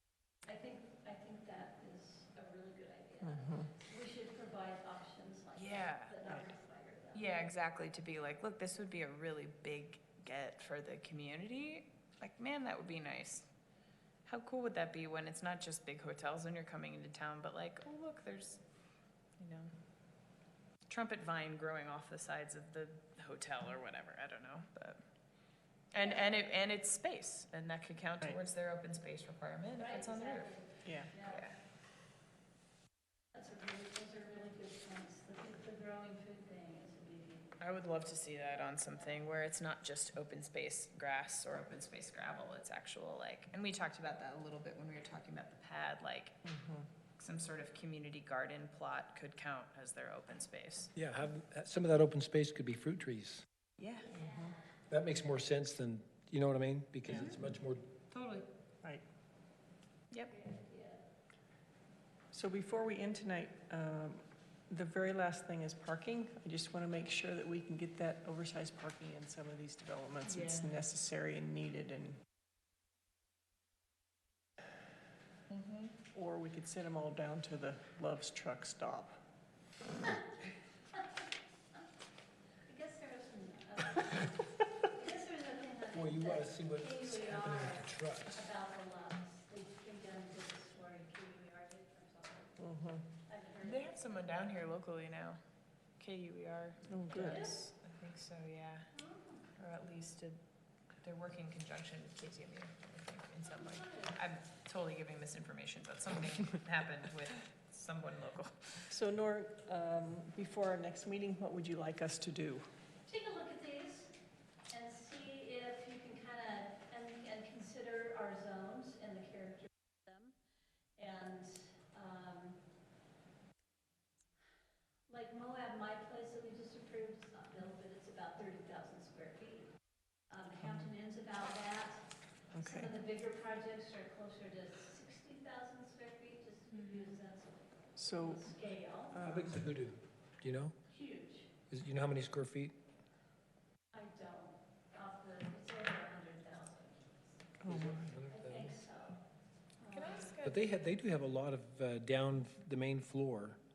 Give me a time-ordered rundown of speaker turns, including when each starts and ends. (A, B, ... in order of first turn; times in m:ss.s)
0:00.4-0:07.3 A
0:03.2-0:03.7 B
0:05.6-0:06.3 C
0:07.1-0:13.5 C
0:14.2-0:18.6 C
0:19.4-0:19.7 C
0:20.9-0:25.0 C
0:25.9-0:30.5 C
0:29.8-0:31.4 A
0:30.8-0:31.1 B
0:31.2-0:31.6 C
0:33.3-0:37.5 A
0:37.6-0:46.3 C
0:46.4-0:46.9 B
0:47.2-0:50.9 C
0:51.0-0:53.4 D
0:53.8-0:54.2 C
0:54.1-0:54.5 B
0:54.9-0:57.8 D
0:57.1-0:57.3 C
0:58.1-0:58.5 C
1:00.3-1:01.0 A
1:02.3-1:12.2 B
1:10.2-1:10.7 C
1:15.5-1:15.9 C
1:16.1-1:19.2 B
1:22.7-1:32.6 A
1:25.9-1:28.4 D
1:32.6-1:33.0 B
1:33.2-1:34.1 A
1:33.6-1:35.4 C
1:36.0-1:38.9 C
1:36.9-1:37.4 B
1:37.2-1:37.6 A
1:38.9-1:39.4 A
1:39.6-1:40.4 C
1:41.0-1:48.8 C
1:43.5-1:44.2 A
1:48.9-1:52.7 B
1:53.1-1:54.1 A
1:54.7-2:00.3 A
2:01.0-2:02.6 A
2:05.1-2:09.7 A
2:10.3-2:12.0 A
2:10.6-2:10.9 B
2:12.5-2:12.9 B
2:12.6-2:19.2 A
2:16.7-2:17.2 C
2:18.0-2:18.5 B
2:19.1-2:19.6 B
2:19.2-2:20.7 D
2:20.9-2:21.5 A
2:21.7-2:22.8 D
2:23.9-2:27.0 A
2:27.6-2:27.9 B
2:27.6-2:28.8 D
2:28.3-2:29.2 A
2:29.8-2:30.3 A
2:29.9-2:30.6 C
2:30.4-2:33.6 D